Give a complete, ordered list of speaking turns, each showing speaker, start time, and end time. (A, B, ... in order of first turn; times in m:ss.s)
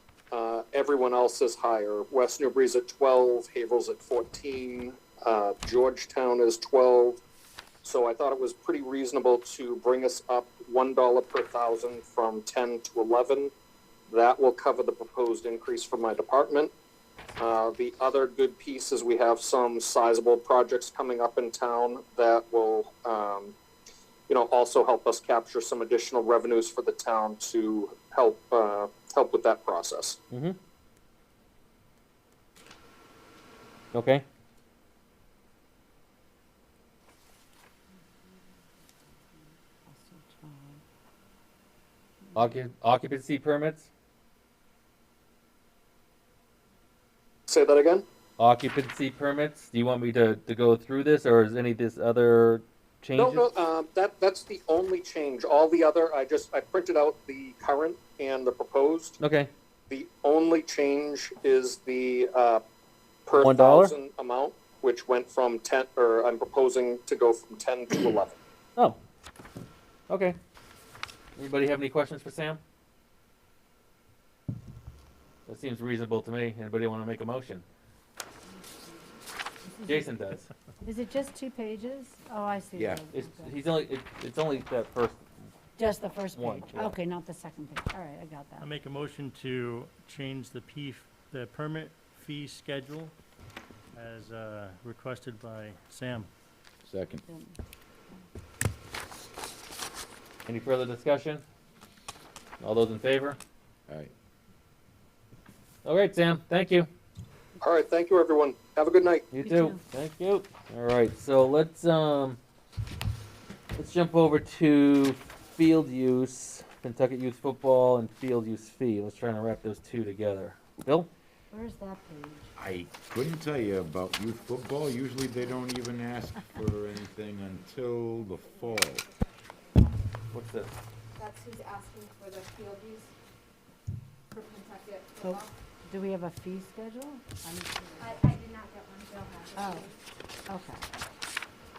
0:00.3-0:07.2 A
0:07.8-0:13.5 A
0:14.1-0:16.7 A
0:17.4-0:23.6 A
0:24.3-0:30.2 A
0:30.3-0:30.6 B
0:33.9-0:34.2 B
0:39.8-0:40.8 C
0:42.3-0:43.9 B
0:47.5-0:48.0 A
0:48.4-0:53.5 B
0:53.2-0:59.2 A
0:59.2-0:59.5 B
0:59.9-1:02.6 A
1:03.2-1:08.4 A
1:03.4-1:03.9 B
1:10.1-1:10.4 B
1:11.4-1:12.6 B
1:15.4-1:17.6 B
1:18.6-1:19.0 C
1:19.6-1:20.1 C
1:19.9-1:20.5 B
1:20.8-1:23.6 C
1:22.7-1:23.0 D
1:23.1-1:25.2 B
1:25.8-1:28.7 C
1:26.3-1:26.9 B
1:28.6-1:33.1 E
1:33.9-1:36.3 E
1:36.8-1:37.2 D
1:37.3-1:37.6 C
1:40.5-1:41.4 B
1:42.6-1:43.4 B
1:45.8-1:46.9 B
1:47.6-1:49.3 A
1:49.3-1:52.4 B
1:49.4-1:49.8 C
1:53.8-2:01.1 B
2:01.5-2:02.5 C
2:02.6-2:09.1 D
2:08.4-2:10.1 F
2:10.3-2:10.8 B
2:11.2-2:13.1 F
2:14.3-2:15.5 F
2:15.2-2:18.3 C
2:18.0-2:20.0 F
2:19.5-2:19.9 C
2:20.5-2:20.8 C